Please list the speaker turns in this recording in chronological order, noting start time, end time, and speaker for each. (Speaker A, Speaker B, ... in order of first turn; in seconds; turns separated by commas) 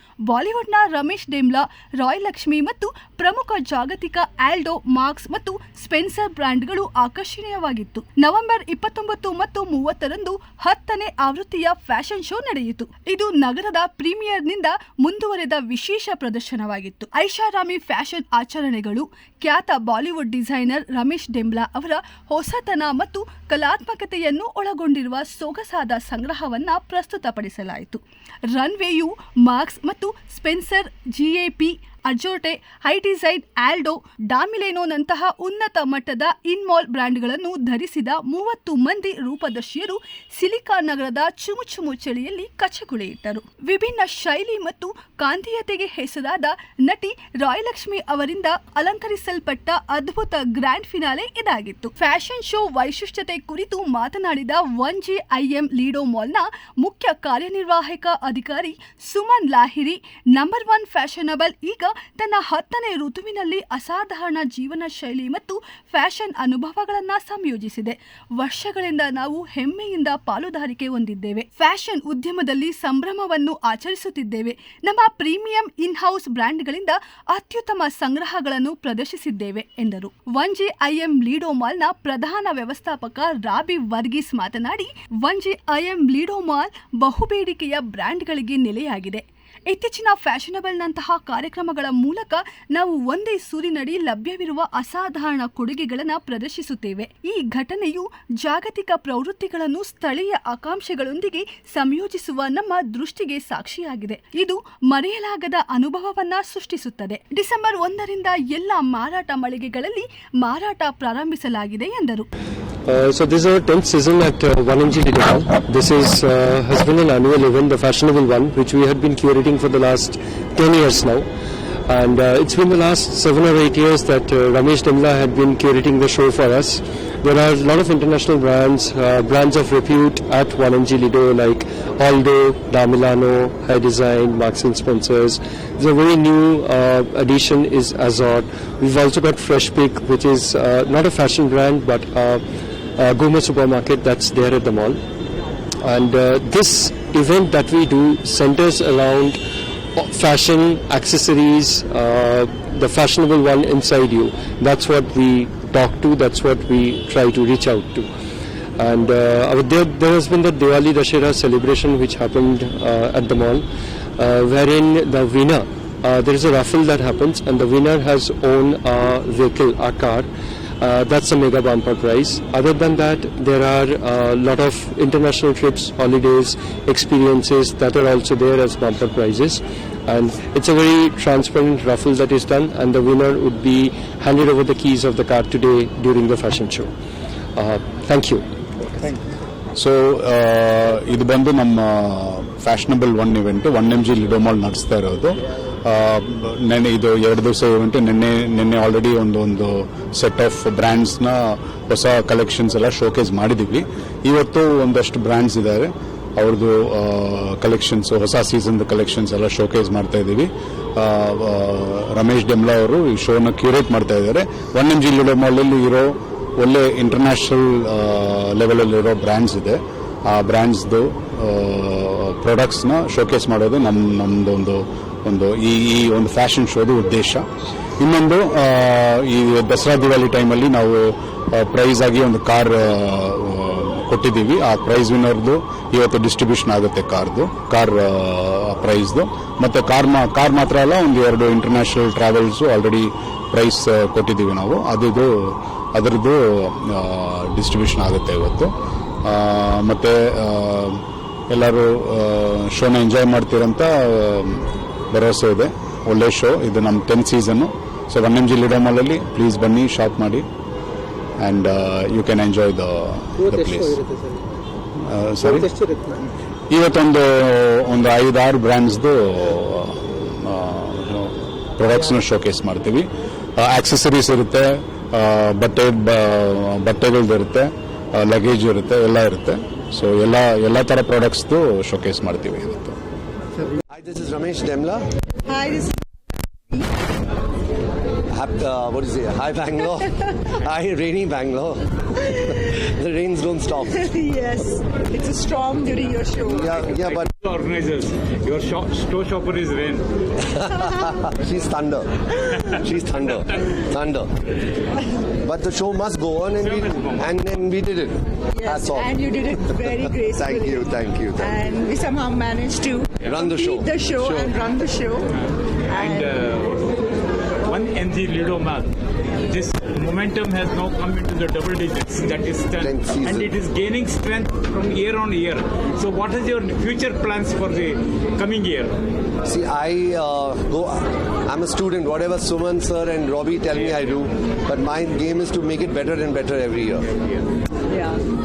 Speaker A: 0.3-28.0, Speaker A: 28.5-112.3, Speaker B: 112.9-121.3, Speaker B: 121.9-142.4, Speaker B: 143.0-145.0, Speaker B: 145.8-149.4, Speaker B: 150.0-158.1, Speaker B: 158.8-163.7, Speaker B: 164.2-170.3, Speaker B: 170.8-186.9, Speaker B: 187.6-188.4, Speaker C: 189.8-227.4, Speaker C: 228.0-248.7, Speaker C: 249.2-260.5, Speaker C: 261.4-264.0, Speaker C: 265.0-265.8, Speaker C: 266.7-283.0, Speaker D: 283.9-285.1, Speaker E: 285.5-287.1, Speaker D: 288.3-292.0, Speaker E: 292.5-292.7, Speaker D: 292.9-294.1, Speaker E: 294.0-296.7, Speaker D: 296.4-297.3, Speaker F: 296.8-300.1, Speaker D: 300.6-304.3, Speaker F: 302.6-303.7, Speaker D: 305.4-309.2, Speaker F: 306.6-307.4, Speaker E: 308.5-315.3, Speaker D: 310.4-311.6, Speaker D: 313.3-314.5, Speaker E: 315.9-316.3, Speaker F: 315.9-316.9, Speaker F: 317.7-318.9, Speaker F: 319.5-329.0, Speaker D: 322.8-323.5, Speaker D: 329.4-337.1, Speaker E: 337.9-338.2